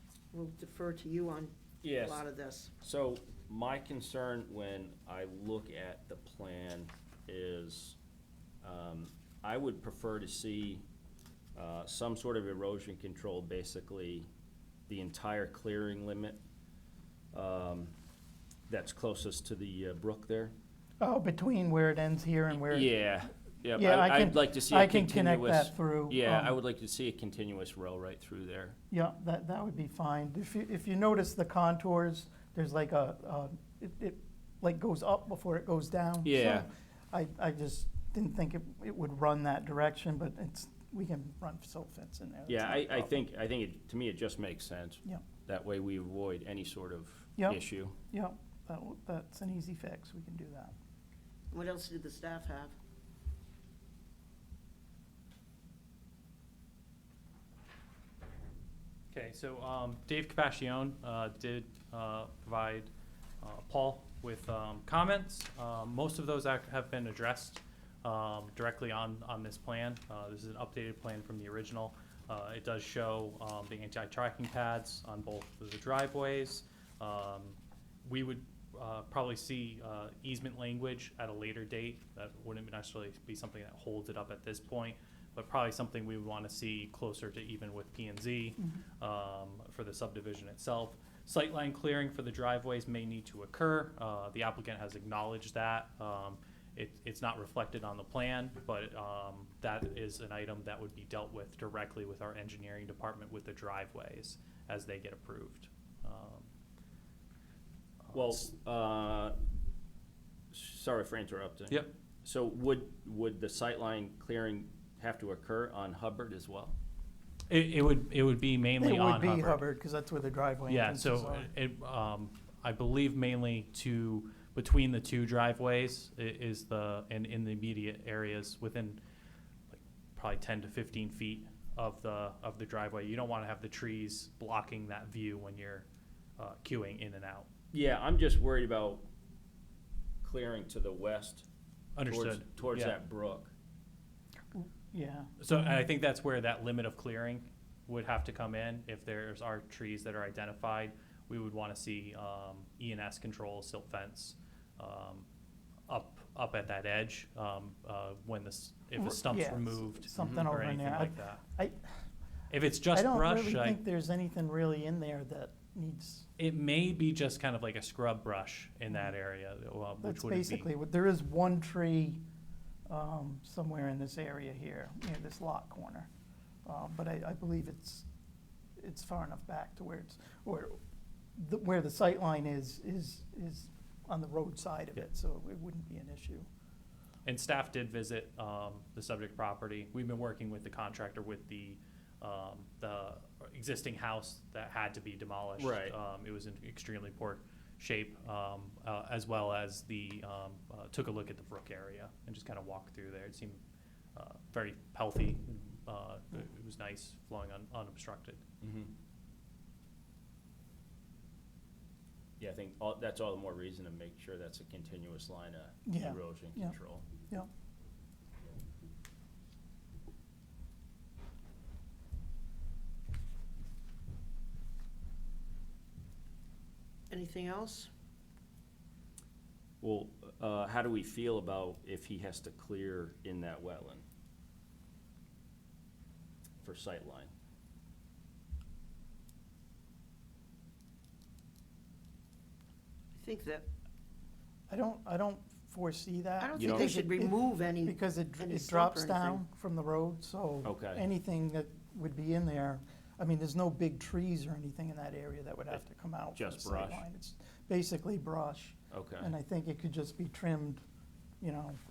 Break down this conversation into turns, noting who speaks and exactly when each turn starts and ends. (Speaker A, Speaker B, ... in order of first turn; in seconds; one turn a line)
Speaker A: 0.3-2.7
Speaker B: 1.8-2.2
Speaker B: 2.8-8.0
Speaker B: 8.6-10.8
Speaker B: 11.5-14.3
Speaker B: 14.9-16.4
Speaker B: 17.3-17.9
Speaker B: 18.7-20.5
Speaker C: 21.0-22.9
Speaker B: 22.6-28.8
Speaker C: 23.7-26.6
Speaker C: 28.9-43.1
Speaker B: 36.2-36.7
Speaker B: 42.5-48.0
Speaker C: 47.4-50.7
Speaker A: 51.5-52.7
Speaker D: 59.1-62.9
Speaker D: 63.4-106.5
Speaker D: 108.1-108.5
Speaker B: 108.1-109.4
Speaker B: 110.5-116.8
Speaker D: 117.5-119.6
Speaker C: 118.8-121.5
Speaker D: 120.7-129.0
Speaker D: 129.7-135.8
Speaker D: 136.4-137.5
Speaker B: 137.7-139.1
Speaker B: 140.2-141.5
Speaker D: 142.0-143.0
Speaker B: 142.1-143.5
Speaker C: 144.5-145.8
Speaker D: 145.4-155.3
Speaker D: 155.9-161.4
Speaker C: 158.9-162.0
Speaker D: 162.5-163.8
Speaker C: 162.9-166.3
Speaker D: 166.4-170.7
Speaker C: 170.0-172.2
Speaker C: 172.9-176.1
Speaker C: 176.7-178.1
Speaker C: 178.8-180.8
Speaker C: 181.4-186.5
Speaker D: 187.2-203.6
Speaker B: 195.6-196.0
Speaker D: 204.2-208.4
Speaker B: 208.6-208.9
Speaker B: 212.4-217.1
Speaker C: 215.8-216.8
Speaker A: 227.1-227.9
Speaker B: 229.8-234.0
Speaker B: 236.6-237.3
Speaker A: 243.2-243.7
Speaker C: 244.7-260.8
Speaker A: 246.4-249.4
Speaker B: 246.6-246.9
Speaker B: 250.6-251.0
Speaker B: 256.4-257.0
Speaker B: 258.9-259.3
Speaker C: 261.4-261.8